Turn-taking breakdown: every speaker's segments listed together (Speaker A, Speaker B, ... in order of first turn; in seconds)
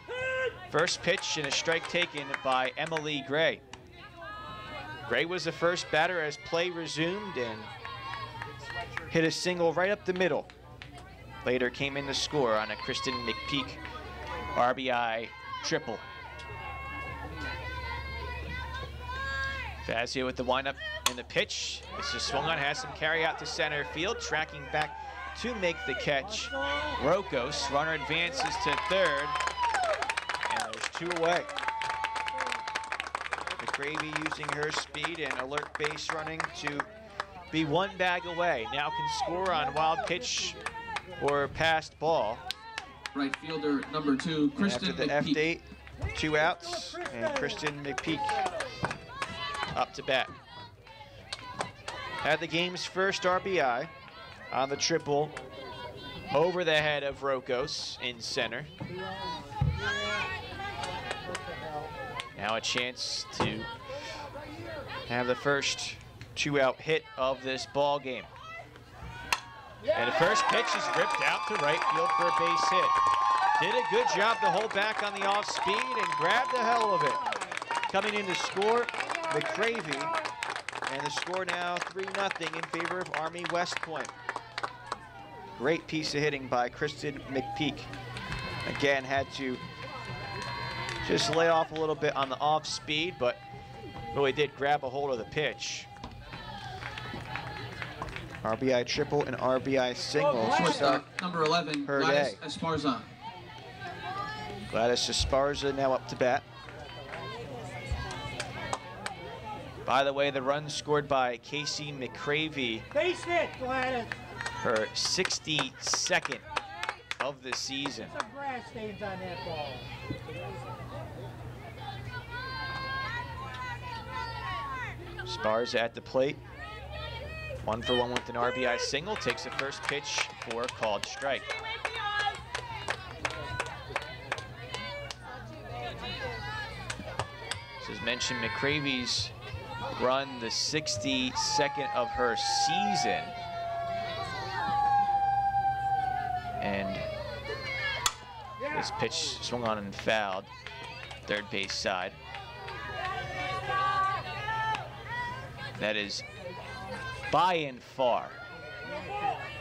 Speaker A: 0.7-3.6, 5.1-7.7, 9.1-10.5, 11.4-13.8, 14.6-16.0, 19.8-29.4, 30.5-31.5, 33.6-36.9, 37.5-40.6, 41.2-42.4, 44.6-48.5, 49.7-50.3, 52.2-53.9, 54.5-55.4, 56.3-58.7, 62.4-63.7, 65.1-68.3, 69.9-73.0, 73.6-77.2, 77.9-80.2, 80.9-84.1, 85.6-87.9, 88.7-89.6, 91.0-93.4, 94.1-95.9, 98.4-101.0, 101.9-102.4, 104.7-106.5, 109.9-112.9, 114.6-116.4, 117.2-118.2, 125.3-126.4, 127.6-131.5, 137.8-139.3, 139.9-143.3, 146.6-147.1, 148.7-150.5, 151.3-152.2, 155.8-156.2, 157.3-158.4
Speaker B: 43.1-45.4, 100.4-103.1
Speaker C: 100.4-100.9, 112.9-114.2, 118.1-119.9